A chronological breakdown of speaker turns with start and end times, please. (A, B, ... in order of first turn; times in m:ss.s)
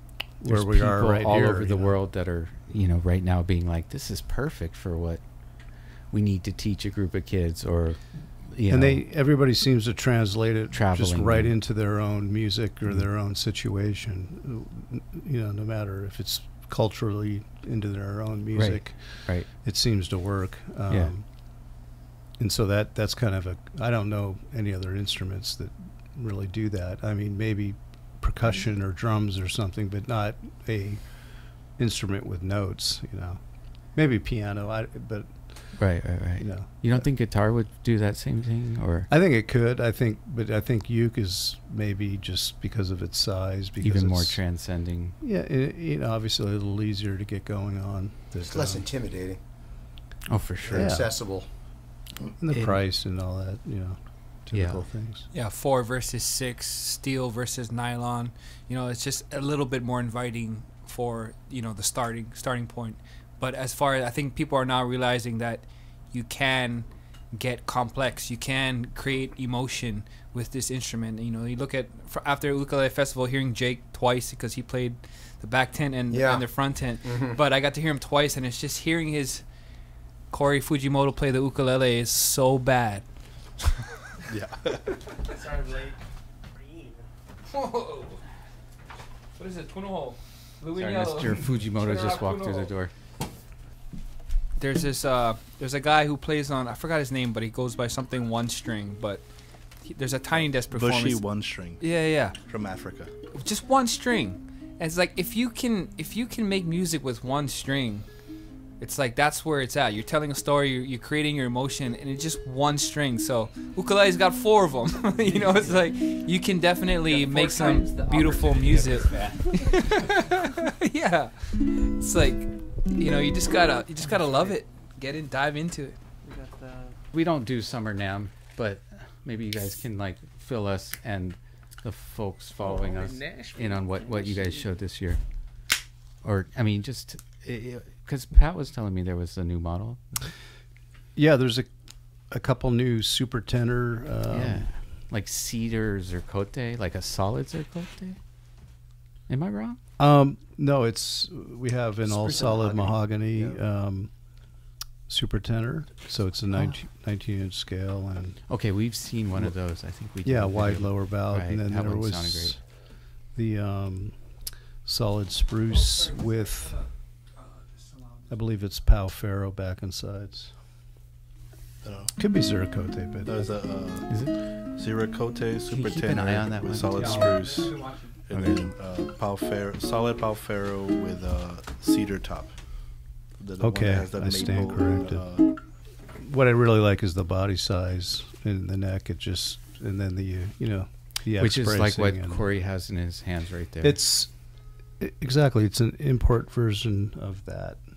0:00.4-0:02.0 A
0:00.4-0:05.3 B
0:06.1-0:09.0 B
0:08.7-0:21.8 A
0:10.7-0:11.6 B
0:18.5-0:19.5 B
0:20.9-0:21.1 B
0:22.4-0:37.1 A
0:35.8-0:39.1 B
0:39.1-0:44.4 A
0:43.8-0:45.2 B
0:45.2-0:48.8 A
0:48.4-0:49.4 C
0:50.3-0:51.0 B
0:50.6-0:51.5 C
0:50.7-0:51.1 A
0:52.4-0:55.3 A
0:52.5-0:52.8 B
0:54.5-0:54.9 B
0:55.3-1:19.5 D
1:16.1-1:17.4 C
1:20.3-1:23.1 D
1:24.3-1:24.8 E
1:25.2-1:27.1 F
1:27.5-1:28.2 D
1:29.4-1:32.7 D
1:30.8-1:32.9 B
1:34.6-1:39.2 D
1:39.8-1:41.2 D
1:40.7-1:43.1 E
1:41.8-1:42.4 D
1:43.3-1:48.1 D
1:48.8-2:06.0 D
1:55.2-1:55.8 F
1:57.1-1:58.0 F
1:57.2-2:00.0 B
2:04.1-2:04.6 F
2:06.2-2:07.0 F
2:07.1-2:15.2 B
2:12.6-2:14.7 F
2:16.2-2:20.2 B
2:21.1-2:24.8 A
2:24.3-2:28.2 B
2:29.3-2:29.8 B
2:30.0-2:34.4 A
2:32.1-2:33.6 C
2:35.1-2:38.4 A
2:36.5-2:36.8 B
2:38.5-2:42.6 B
2:40.2-2:46.9 A
2:45.8-2:46.2 D
2:47.4-2:48.2 D
2:48.3-2:50.6 A
2:51.8-2:52.1 E
2:52.2-2:53.6 A
2:53.2-3:05.6 E
2:54.1-2:54.4 B
2:55.7-2:57.4 B
2:56.9-2:58.1 D
2:58.3-2:58.8 B
3:03.6-3:05.3 A
3:06.1-3:12.4 A
3:11.4-3:14.0 B
3:13.8-3:17.8 A